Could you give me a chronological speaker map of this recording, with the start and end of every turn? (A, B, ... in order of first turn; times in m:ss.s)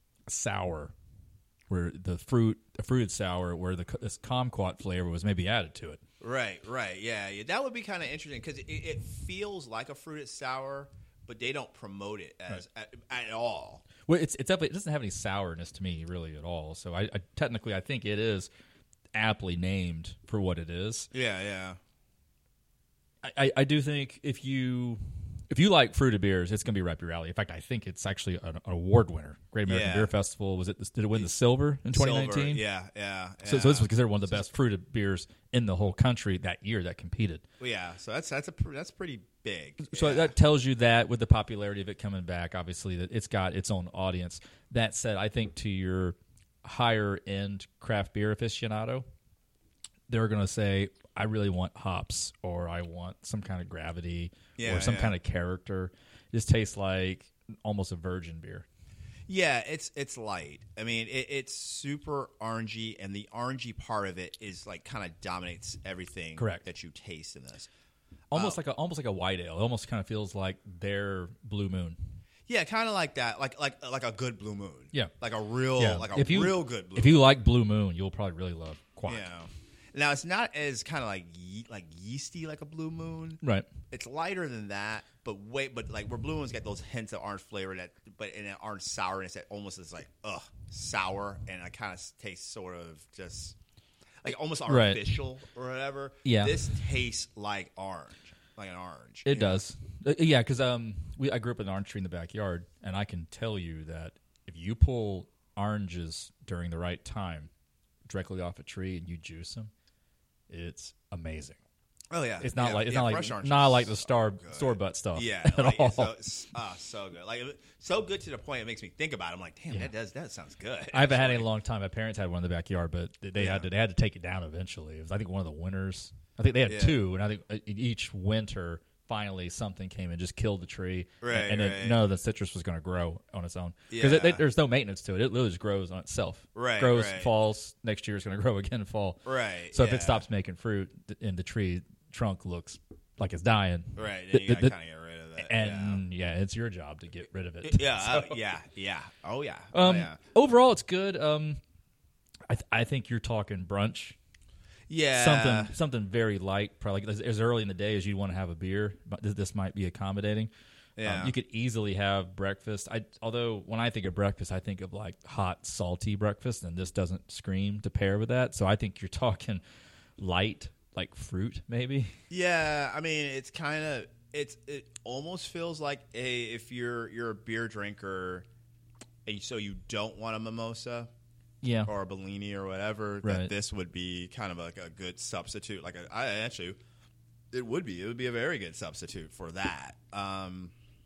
0:00.3-0:00.9 A
0:01.7-0:06.0 A
0:06.2-0:13.8 B
0:14.1-0:18.5 A
0:19.1-0:21.1 A
0:21.1-0:21.8 B
0:23.2-0:32.6 A
0:29.7-0:30.1 B
0:31.9-0:34.4 B
0:33.4-0:37.4 A
0:37.6-0:40.3 B
0:39.8-0:49.0 A
0:50.1-0:58.7 A
0:54.6-0:55.2 B
0:59.3-1:07.7 B
1:06.4-1:06.6 A
1:08.3-1:12.0 A
1:12.5-1:17.3 B
1:15.8-1:19.3 A
1:19.1-1:33.6 B
1:23.4-1:23.7 A
1:34.2-1:39.6 B
1:34.7-1:35.2 A
1:36.2-1:36.6 A
1:39.2-1:47.5 A
1:48.1-1:49.7 A
1:50.5-1:51.6 A
1:52.1-2:01.5 B
1:52.4-1:56.2 A
2:00.9-2:19.2 A
2:03.4-2:03.7 B
2:06.7-2:07.0 B
2:11.2-2:12.0 B
2:13.9-2:14.4 B
2:16.6-2:17.3 B
2:19.2-2:20.2 B
2:19.7-2:24.8 A
2:24.0-2:26.0 B
2:25.4-2:28.4 A
2:27.6-2:30.2 B
2:29.7-2:31.6 A
2:32.5-2:34.2 A
2:34.9-2:35.7 B
2:35.1-2:40.5 A
2:41.0-2:41.3 B
2:41.0-2:49.6 A
2:50.2-2:52.1 A
2:52.3-2:58.4 B
2:59.3-3:01.1 B
3:01.6-3:01.9 A
3:01.9-3:06.8 B
3:03.2-3:03.5 A
3:07.5-3:10.7 B